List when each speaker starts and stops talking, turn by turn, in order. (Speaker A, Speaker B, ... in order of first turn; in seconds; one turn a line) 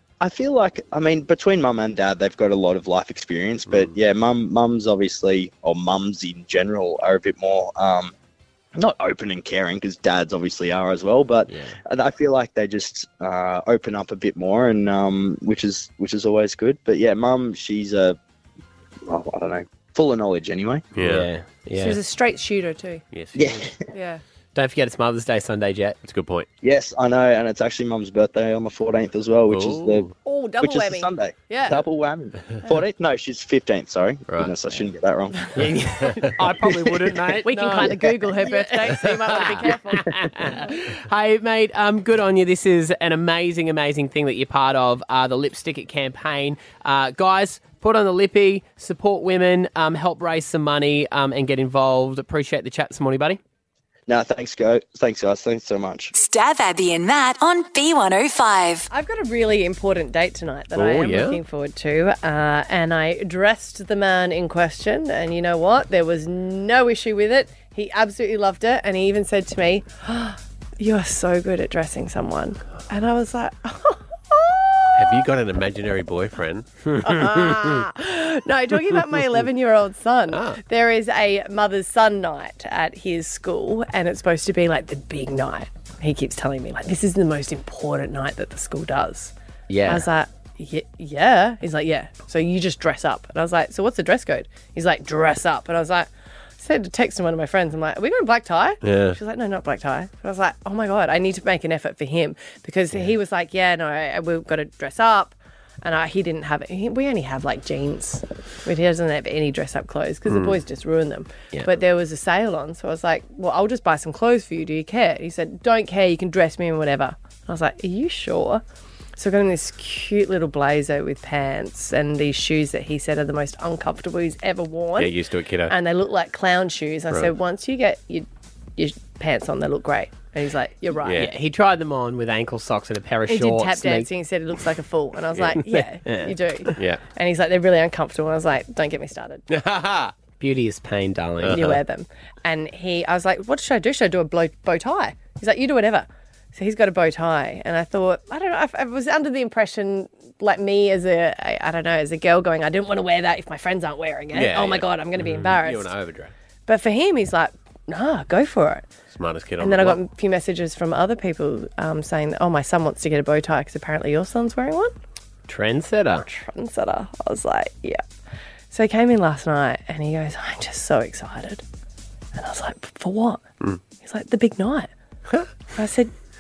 Speaker A: 0.2-8.1
Speaker B: 3.7-4.0
Speaker A: 8.8-18.2
Speaker C: 11.5-11.8
Speaker A: 19.1-20.9
Speaker B: 20.9-21.3
Speaker C: 21.0-22.0
Speaker D: 21.8-23.0
Speaker B: 23.1-23.6
Speaker A: 23.4-23.8
Speaker D: 23.9-24.2
Speaker C: 24.6-26.0
Speaker B: 26.0-26.5
Speaker A: 26.6-30.1
Speaker B: 29.5-30.1
Speaker D: 30.2-31.8
Speaker A: 30.6-35.5
Speaker B: 34.3-34.5
Speaker C: 35.5-53.4
Speaker D: 37.4-40.7
Speaker A: 54.1-56.1
Speaker E: 56.1-58.9
Speaker D: 58.9-75.3
Speaker B: 60.8-61.4
Speaker B: 75.0-76.7
Speaker C: 76.9-77.7
Speaker D: 77.0-89.3
Speaker B: 80.3-80.6
Speaker C: 89.7-90.1
Speaker D: 89.9-118.6
Speaker B: 98.8-99.2
Speaker B: 110.3-110.6
Speaker D: 119.2-125.2
Speaker B: 125.0-125.7
Speaker D: 125.7-131.3
Speaker B: 131.1-131.3
Speaker C: 131.1-134.1
Speaker D: 133.3-139.5
Speaker B: 135.3-135.6
Speaker C: 136.0-136.8
Speaker B: 136.8-137.0
Speaker B: 139.5-140.1
Speaker C: 140.4-141.7
Speaker B: 141.4-141.8
Speaker D: 141.4-155.9
Speaker B: 154.3-156.3
Speaker D: 156.7-158.9
Speaker B: 159.1-160.0
Speaker D: 159.6-164.9
Speaker C: 165.5-166.3
Speaker D: 166.3-168.0
Speaker D: 168.7-171.6
Speaker D: 172.3-173.4
Speaker D: 174.0-174.9
Speaker D: 175.7-176.1